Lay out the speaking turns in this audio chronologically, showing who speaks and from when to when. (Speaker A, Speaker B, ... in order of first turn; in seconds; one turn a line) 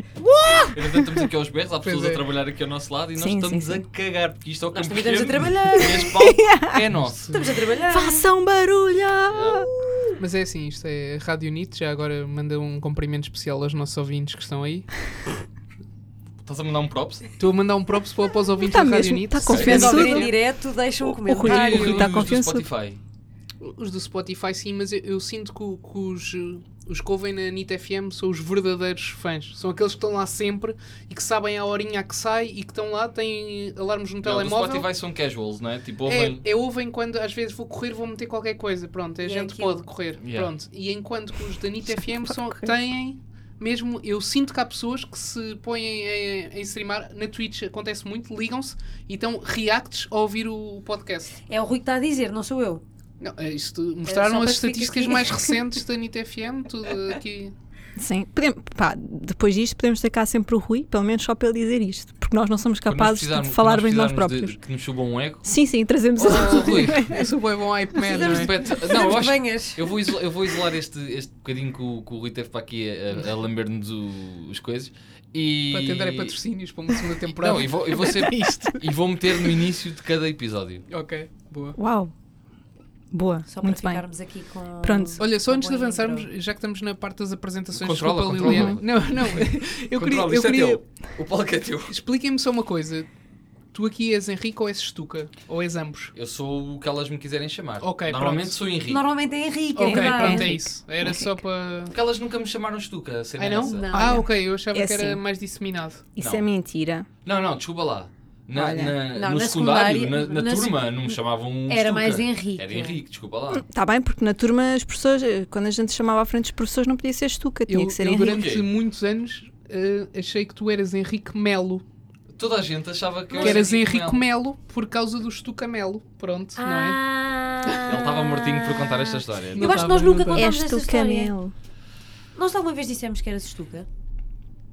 Speaker A: 0.2-1.3
Speaker B: 0.7-7.4
Speaker C: 1.8-2.2
Speaker A: 3.2-3.9
Speaker D: 4.7-6.1
Speaker A: 6.0-6.9
Speaker C: 7.0-7.5
Speaker D: 7.3-8.2
Speaker A: 7.9-10.1
Speaker B: 9.3-9.7
Speaker C: 10.2-14.9
Speaker B: 16.4-17.3
Speaker C: 17.4-20.3
Speaker A: 18.6-20.3
Speaker B: 19.5-20.0
Speaker D: 19.5-22.1
Speaker A: 21.0-22.6
Speaker B: 21.4-23.0
Speaker C: 23.6-34.9
Speaker B: 34.2-36.4
Speaker C: 36.0-51.4
Speaker D: 39.2-39.9
Speaker B: 40.2-40.5
Speaker A: 41.9-42.7
Speaker D: 51.5-52.8
Speaker C: 53.2-57.5
Speaker D: 54.0-55.6
Speaker A: 58.0-64.5
Speaker B: 62.9-65.5
Speaker A: 65.4-67.3
Speaker C: 66.2-68.5
Speaker B: 66.2-67.2
Speaker D: 68.0-69.9
Speaker B: 68.1-76.4
Speaker C: 75.7-78.8
Speaker B: 77.3-80.8
Speaker A: 78.1-78.6
Speaker C: 80.9-81.8
Speaker A: 81.8-82.1
Speaker A: 83.1-84.0
Speaker D: 83.5-86.3
Speaker A: 84.8-85.2
Speaker C: 85.2-90.8
Speaker B: 87.7-92.0
Speaker A: 88.4-88.8
Speaker C: 91.9-93.1
Speaker C: 93.7-96.1
Speaker B: 96.1-99.0
Speaker C: 97.8-98.6
Speaker D: 98.9-100.5
Speaker C: 99.7-101.9
Speaker A: 99.8-101.2
Speaker B: 101.9-103.8
Speaker C: 103.4-106.0
Speaker D: 103.6-104.2
Speaker A: 103.9-105.2
Speaker A: 106.1-107.1
Speaker B: 106.2-106.5
Speaker B: 107.2-113.6
Speaker A: 108.5-109.0
Speaker D: 109.1-110.9
Speaker D: 111.7-113.0
Speaker A: 113.5-118.4
Speaker C: 117.7-121.8
Speaker B: 118.2-118.7
Speaker B: 122.4-124.2
Speaker D: 123.3-123.7
Speaker C: 123.3-127.0
Speaker D: 126.6-131.3
Speaker B: 127.8-129.9
Speaker C: 129.5-130.5
Speaker A: 130.3-131.5
Speaker D: 132.3-133.9